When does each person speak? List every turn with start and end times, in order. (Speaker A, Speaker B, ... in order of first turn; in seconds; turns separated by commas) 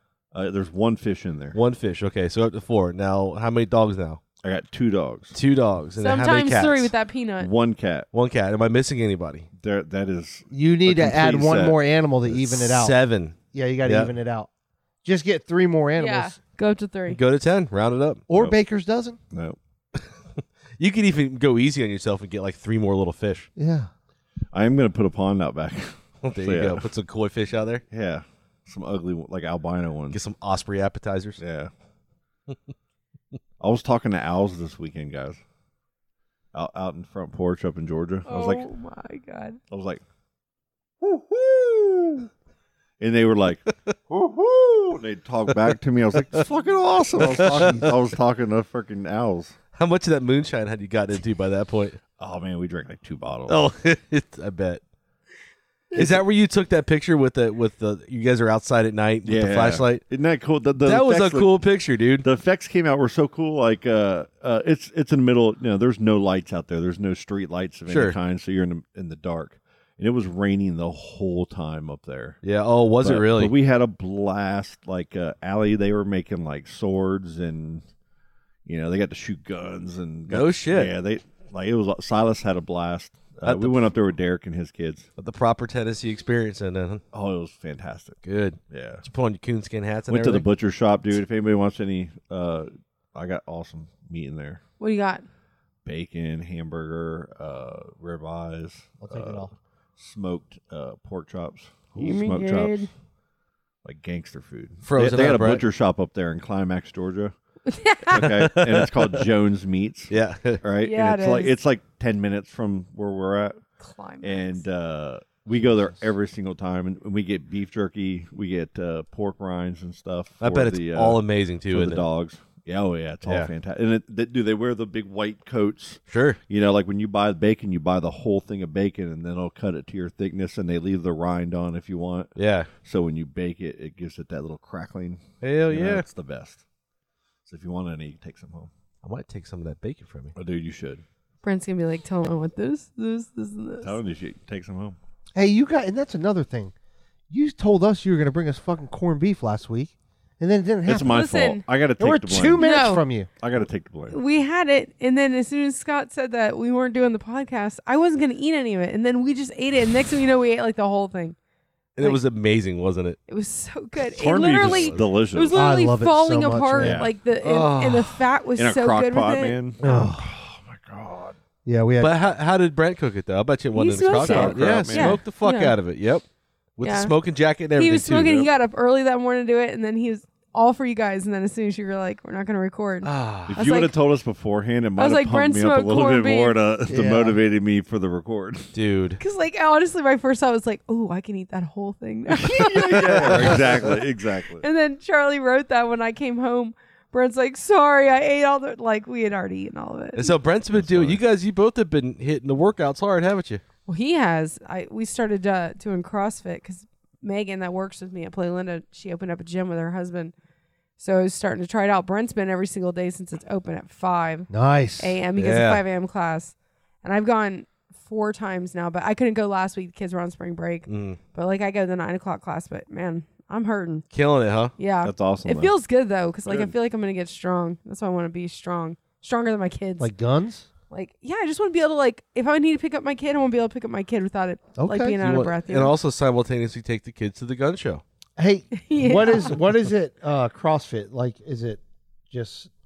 Speaker A: 0.3-1.6, Speaker B: 1.5-4.2, Speaker A: 4.4-5.3, Speaker B: 5.3-6.9, Speaker C: 6.0-7.5, Speaker A: 7.4-8.1, Speaker B: 8.1-9.5, Speaker A: 9.6-11.8, Speaker D: 10.5-13.0, Speaker B: 12.4-14.1, Speaker D: 13.5-14.5, Speaker D: 15.0-16.4, Speaker C: 16.0-17.2, Speaker B: 17.1-18.2, Speaker D: 18.3-19.2, Speaker A: 19.3-19.6, Speaker B: 20.0-23.5, Speaker D: 23.6-23.9, Speaker A: 24.5-26.8, Speaker B: 26.2-27.8, Speaker A: 27.9-30.2, Speaker B: 30.1-31.4, Speaker A: 31.4-31.7, Speaker A: 33.6-35.4, Speaker A: 36.5-38.6, Speaker C: 38.3-39.6, Speaker A: 39.7-40.0, Speaker A: 41.0-42.3, Speaker A: 43.0-49.5, Speaker D: 47.2-48.0, Speaker B: 47.4-47.7, Speaker B: 49.7-52.0, Speaker A: 52.2-53.6, Speaker B: 53.5-54.8, Speaker B: 56.0-60.0, Speaker A: 59.2-61.6, Speaker B: 60.8-62.2, Speaker A: 62.2-72.4, Speaker B: 67.9-68.2, Speaker B: 72.4-73.5, Speaker A: 73.0-77.8, Speaker A: 78.7-85.1, Speaker B: 80.3-80.9, Speaker B: 83.4-83.9, Speaker B: 85.2-87.0, Speaker A: 87.1-89.0, Speaker B: 88.2-90.5, Speaker A: 90.1-94.6, Speaker C: 94.8-95.2, Speaker A: 95.8-102.9, Speaker D: 99.0-99.5, Speaker C: 102.0-102.9, Speaker A: 103.8-107.3, Speaker B: 104.8-105.6, Speaker C: 107.7-108.3, Speaker A: 108.0-113.6, Speaker B: 108.2-109.2, Speaker B: 110.1-110.6, Speaker C: 110.8-111.5, Speaker C: 113.8-114.6, Speaker A: 114.2-136.6, Speaker D: 115.5-116.0, Speaker B: 120.4-122.0, Speaker B: 123.2-123.5, Speaker B: 126.1-126.4, Speaker B: 132.3-132.7, Speaker B: 135.4-136.0, Speaker A: 137.5-138.7, Speaker B: 139.0-140.3, Speaker A: 140.3-141.0, Speaker C: 141.4-144.0, Speaker A: 143.8-145.0, Speaker D: 145.3-146.7, Speaker D: 147.3-151.2, Speaker A: 150.8-152.7, Speaker C: 150.9-151.6, Speaker D: 152.0-153.3, Speaker C: 152.6-153.0, Speaker A: 153.4-154.2, Speaker C: 154.1-161.3, Speaker B: 162.0-163.2, Speaker C: 163.3-170.0, Speaker A: 164.0-165.6, Speaker B: 164.4-165.0, Speaker D: 165.5-167.0, Speaker A: 166.8-167.1, Speaker B: 167.4-168.2, Speaker A: 168.6-171.3, Speaker D: 169.8-170.3, Speaker D: 171.6-172.2, Speaker B: 172.0-176.2, Speaker C: 173.7-175.8, Speaker A: 174.1-175.2, Speaker B: 176.8-178.5, Speaker C: 176.8-177.1, Speaker C: 177.7-183.9, Speaker B: 183.0-183.6, Speaker A: 183.5-188.7, Speaker C: 185.0-186.6, Speaker D: 186.9-187.4, Speaker B: 188.7-189.2, Speaker C: 189.2-194.0, Speaker A: 192.3-194.6, Speaker B: 193.2-193.6, Speaker C: 194.6-200.3, Speaker B: 200.1-203.6, Speaker A: 200.7-201.2, Speaker C: 203.9-210.3, Speaker C: 211.0-224.0, Speaker D: 214.5-215.2, Speaker B: 215.4-215.8, Speaker B: 220.9-221.2, Speaker B: 224.1-224.7, Speaker C: 224.8-230.1, Speaker A: 225.0-225.7, Speaker A: 226.5-226.7, Speaker D: 230.0-230.7, Speaker C: 230.9-235.9, Speaker D: 234.8-235.2, Speaker B: 235.2-238.0, Speaker D: 238.4-242.7, Speaker C: 238.8-239.6